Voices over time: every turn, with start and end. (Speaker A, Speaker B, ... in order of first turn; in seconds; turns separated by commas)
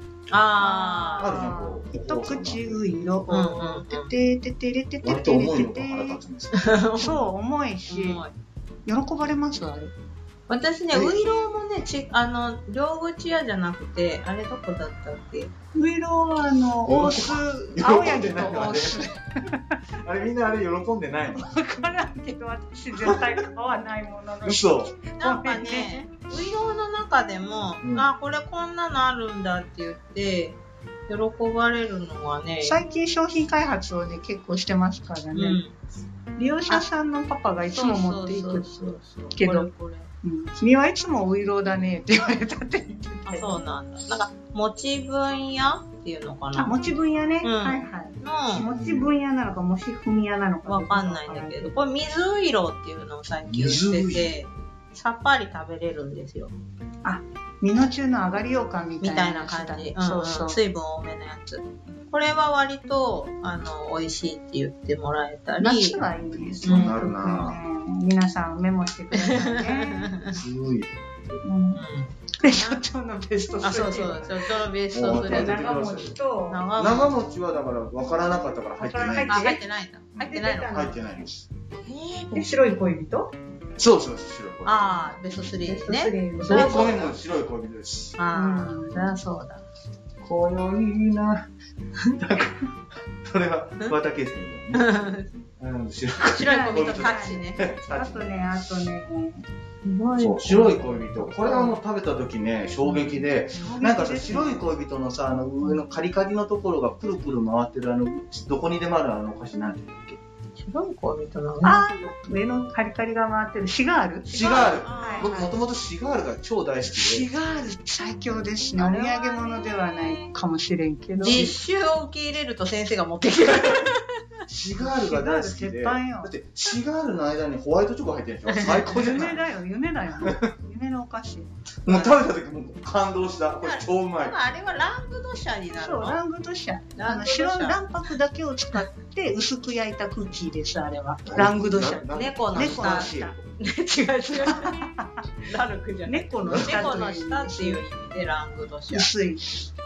Speaker A: 0.3-1.5, Speaker B: 0.6-6.2, Speaker C: 1.2-2.9, Speaker A: 3.3-4.1, Speaker C: 5.0-6.8, Speaker A: 6.5-7.2, Speaker B: 7.0-8.2, Speaker A: 7.9-8.3, Speaker B: 8.9-9.9, Speaker A: 10.5-15.5, Speaker C: 10.9-11.2, Speaker B: 15.8-19.8, Speaker C: 16.9-19.1, Speaker C: 20.0-21.5, Speaker B: 21.4-26.0, Speaker C: 22.9-23.3, Speaker C: 24.4-24.9, Speaker A: 25.2-32.8, Speaker C: 27.8-28.1, Speaker B: 32.6-35.6, Speaker A: 35.4-35.8, Speaker B: 36.4-39.7, Speaker A: 37.7-40.1, Speaker B: 40.2-43.6, Speaker A: 43.3-46.7, Speaker B: 46.6-51.7, Speaker A: 47.4-48.6, Speaker C: 48.5-49.1, Speaker A: 50.6-56.5, Speaker C: 53.4-54.4, Speaker B: 57.0-60.6, Speaker A: 59.0-66.0, Speaker B: 65.6-70.1, Speaker C: 66.3-67.6, Speaker A: 66.6-67.0, Speaker A: 69.1-70.4, Speaker C: 70.3-71.4, Speaker B: 71.4-71.8, Speaker A: 71.8-72.8, Speaker B: 72.4-76.6, Speaker A: 73.6-75.9, Speaker C: 74.9-76.1, Speaker A: 76.5-77.1, Speaker C: 76.8-79.4, Speaker B: 78.8-79.6, Speaker A: 79.3-80.8, Speaker C: 80.1-81.5, Speaker B: 80.3-81.0, Speaker A: 81.8-82.4, Speaker B: 82.3-83.3, Speaker C: 83.8-85.3, Speaker A: 84.6-87.0, Speaker B: 85.5-87.1, Speaker C: 86.5-88.2, Speaker A: 88.2-89.7, Speaker B: 88.3-89.2, Speaker C: 90.2-91.5, Speaker C: 92.0-92.7, Speaker C: 93.2-98.4, Speaker A: 94.7-95.3, Speaker A: 96.2-97.6, Speaker B: 96.4-99.5, Speaker A: 99.8-101.7, Speaker C: 100.2-110.2, Speaker A: 102.8-103.8, Speaker B: 103.6-104.6, Speaker A: 110.6-111.9, Speaker B: 111.6-115.4, Speaker A: 114.3-115.5, Speaker C: 114.3-117.3, Speaker B: 116.9-121.5, Speaker A: 118.8-120.3, Speaker A: 121.2-124.1, Speaker C: 124.5-129.4, Speaker B: 124.8-126.3, Speaker A: 128.5-128.9, Speaker B: 128.6-131.5, Speaker C: 131.8-134.4, Speaker A: 131.9-132.2, Speaker A: 133.6-136.2, Speaker B: 135.8-143.3, Speaker A: 136.9-137.8, Speaker C: 141.2-143.5, Speaker A: 142.1-144.7, Speaker B: 144.4-145.2, Speaker A: 145.4-149.1, Speaker B: 146.1-147.8, Speaker C: 146.4-146.9, Speaker B: 148.9-149.7